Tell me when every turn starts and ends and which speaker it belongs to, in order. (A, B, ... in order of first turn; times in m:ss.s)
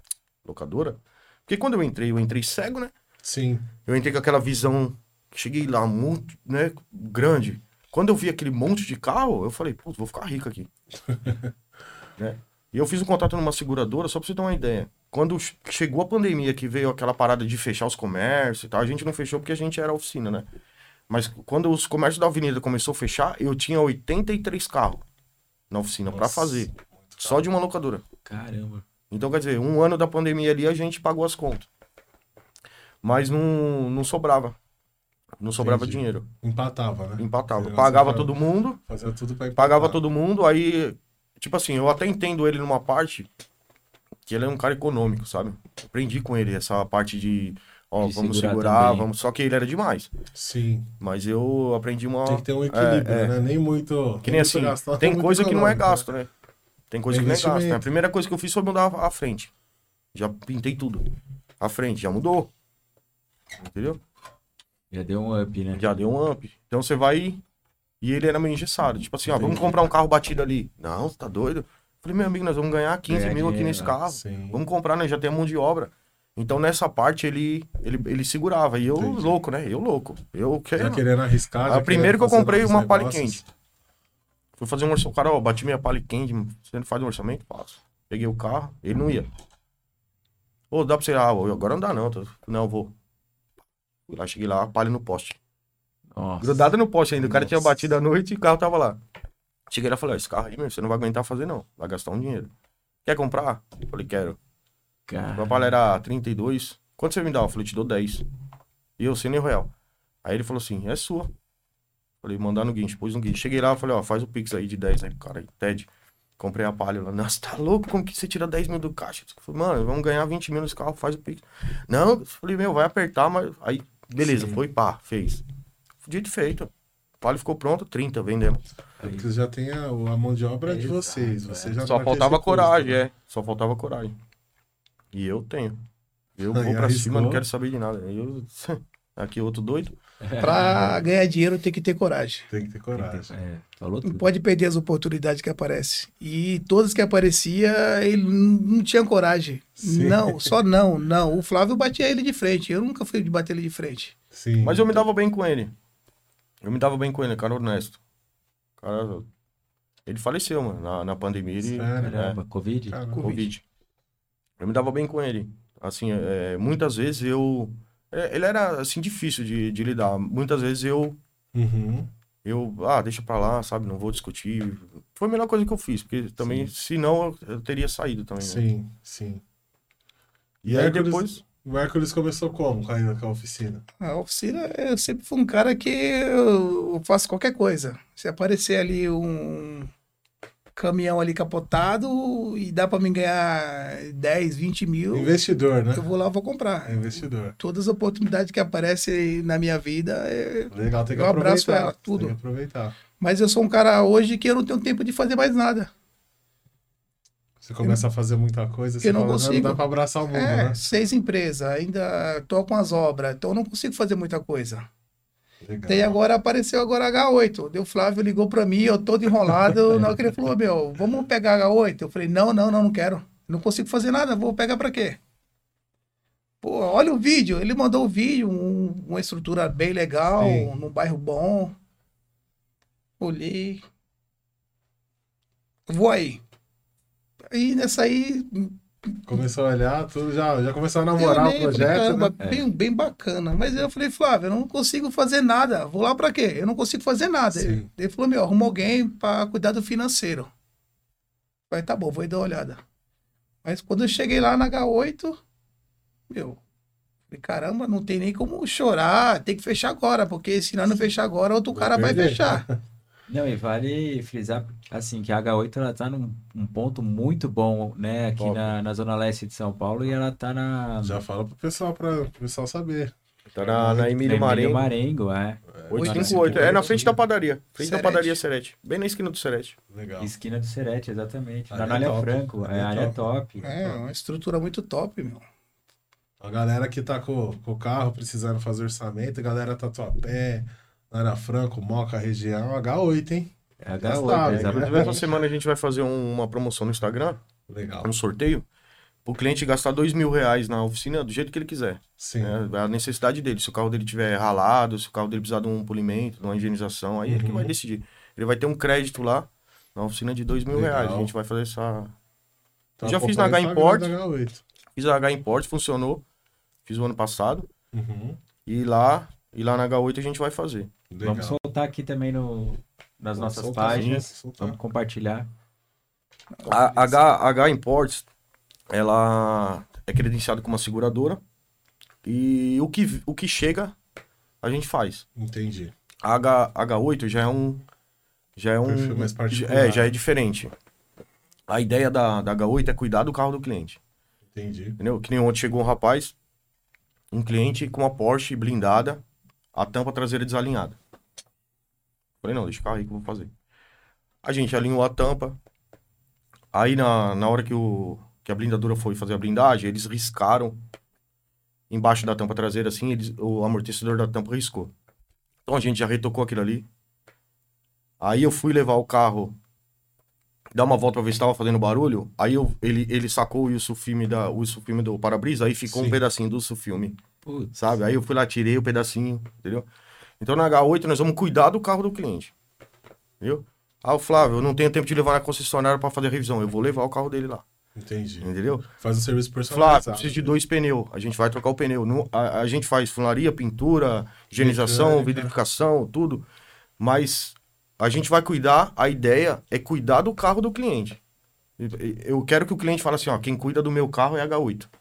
0:00.4-0:02.9 A
0:03.2-0:03.7 B
0:03.8-0:10.7 A
0:11.1-0:11.5 B
0:12.2-0:20.5 A
0:21.1-0:25.0 A
0:25.7-0:28.0 A
0:26.1-0:27.4 B
0:28.2-0:28.8 C
0:29.1-0:31.7 A
0:33.0-0:34.6 A
0:35.4-0:36.2 A
0:35.6-0:40.0 B
0:37.2-0:38.8 A
0:39.6-0:43.3 A
0:44.3-0:50.1 A
0:48.0-0:49.1 C
0:50.3-0:50.9 B
0:51.0-0:53.4 A
0:52.2-0:56.1 B
0:54.2-0:56.3 A
0:56.9-0:59.5 A
0:57.1-0:57.8 B
1:00.1-1:01.1 A
1:01.6-1:02.5 A
1:03.6-1:04.0 A
1:04.9-1:05.8 C
1:05.7-1:07.4 A
1:08.0-1:21.0 A
1:09.3-1:09.7 B
1:13.1-1:14.0 C
1:14.0-1:14.6 B
1:18.9-1:19.4 B
1:20.7-1:23.4 B
1:21.6-1:23.4 A
1:24.6-1:29.3 A
1:30.7-1:32.9 A
1:34.1-1:35.4 A
1:36.1-1:37.6 C
1:36.4-1:39.0 A
1:39.7-1:42.5 A
1:43.0-1:44.4 A
1:45.1-1:45.7 C
1:45.3-1:48.2 A
1:49.0-1:49.7 A
1:50.2-1:51.3 A
1:52.2-2:05.4 A
2:04.2-2:04.6 B
2:06.0-2:08.6 A
2:09.0-2:09.3 C
2:09.0-2:13.0 B
2:10.6-2:11.8 C
2:11.8-2:14.2 A
2:15.1-2:15.8 A
2:16.4-2:20.0 A
2:16.5-2:17.4 B
2:20.2-2:21.0 C
2:20.4-2:22.5 D
2:22.5-2:23.4 B
2:22.9-2:24.2 C
2:24.0-2:34.1 D
2:29.8-2:30.5 B
2:34.3-2:35.0 B
2:34.6-2:35.7 A
2:36.6-2:38.0 A
2:38.8-2:39.3 A
2:40.0-2:42.4 A
2:41.6-2:42.3 B
2:42.0-2:43.4 C
2:42.9-2:43.3 B
2:43.1-2:43.5 D
2:43.2-2:43.6 A
2:44.6-2:51.2 A
2:51.5-2:52.1 B
2:52.4-2:58.6 A
2:56.4-2:56.7 B
2:58.4-2:59.4 B
3:00.6-3:01.4 A
3:00.6-3:03.8 B
3:04.0-3:09.9 D
3:10.8-3:15.3 D
3:15.1-3:16.1 B
3:15.9-3:22.3 D
3:16.8-3:17.6 B
3:20.7-3:23.0 B
3:23.2-3:25.9 D
3:27.6-3:30.8 B
3:29.0-3:34.9 D
3:35.6-3:36.2 B
3:35.9-3:45.2 D
3:39.5-3:40.1 B
3:46.6-3:51.8 D
3:50.3-3:50.7 B
3:53.2-3:53.8 D
3:55.9-3:56.4 D
3:57.5-3:59.3 D
3:59.2-4:02.3 B
4:01.2-4:10.5 D
4:02.4-4:02.7 C
4:07.5-4:07.9 B
4:11.7-4:12.8 D
4:13.6-4:15.4 D
4:16.3-4:16.6 D
4:17.3-4:22.6 D
4:21.7-4:22.8 B
4:23.3-4:31.2 C
4:28.4-4:28.7 A
4:31.0-4:34.2 B
4:33.5-4:34.9 A
4:34.2-4:36.5 C
4:35.7-4:37.2 B
4:35.9-4:39.8 A
4:35.9-4:36.6 D
4:37.8-4:38.4 D
4:39.9-4:40.3 B
4:40.2-4:43.7 C
4:41.7-4:43.3 B
4:43.6-4:45.4 D
4:46.4-4:55.3 B
4:53.8-4:55.3 C
4:54.3-4:57.4 A
4:57.7-4:58.1 B
4:58.0-4:58.6 A
4:59.2-5:12.1 A
5:02.2-5:02.6 B
5:07.2-5:07.7 B
5:10.7-5:11.3 B
5:13.0-5:14.6 B
5:13.0-5:14.1 A
5:15.0-5:16.2 A
5:16.8-5:17.7 A
5:17.9-5:18.4 B
5:18.6-5:20.9 A
5:21.1-5:21.6 B
5:21.2-5:25.5 C
5:23.4-5:24.8 B
5:23.8-5:24.2 A
5:26.6-5:27.2 D
5:26.6-5:28.2 A
5:28.9-5:31.4 A
5:32.2-5:33.9 A
5:34.6-5:35.2 A
5:35.4-5:35.9 B
5:36.2-5:37.8 A
5:38.6-5:40.7 A
5:38.8-5:40.1 B
5:41.7-5:44.0 A
5:44.5-5:45.0 B
5:45.0-5:46.3 A
5:47.3-5:49.2 A
5:49.7-5:51.0 A
5:52.4-5:53.5 A
5:54.4-5:55.6 A
5:56.7-6:00.8 A
6:01.9-6:04.9 A
6:05.6-6:06.9 A
6:08.2-6:09.6 A
6:10.7-6:17.2 A
6:15.9-6:16.2 B
6:17.4-6:17.7 C
6:17.7-6:19.9 A
6:20.4-6:22.5 A
6:23.4-6:27.6 A
6:28.0-6:30.6 B
6:28.4-6:28.9 A
6:29.7-6:36.4 A
6:34.5-6:35.5 B
6:37.0-6:41.2 A
6:41.8-6:44.9 A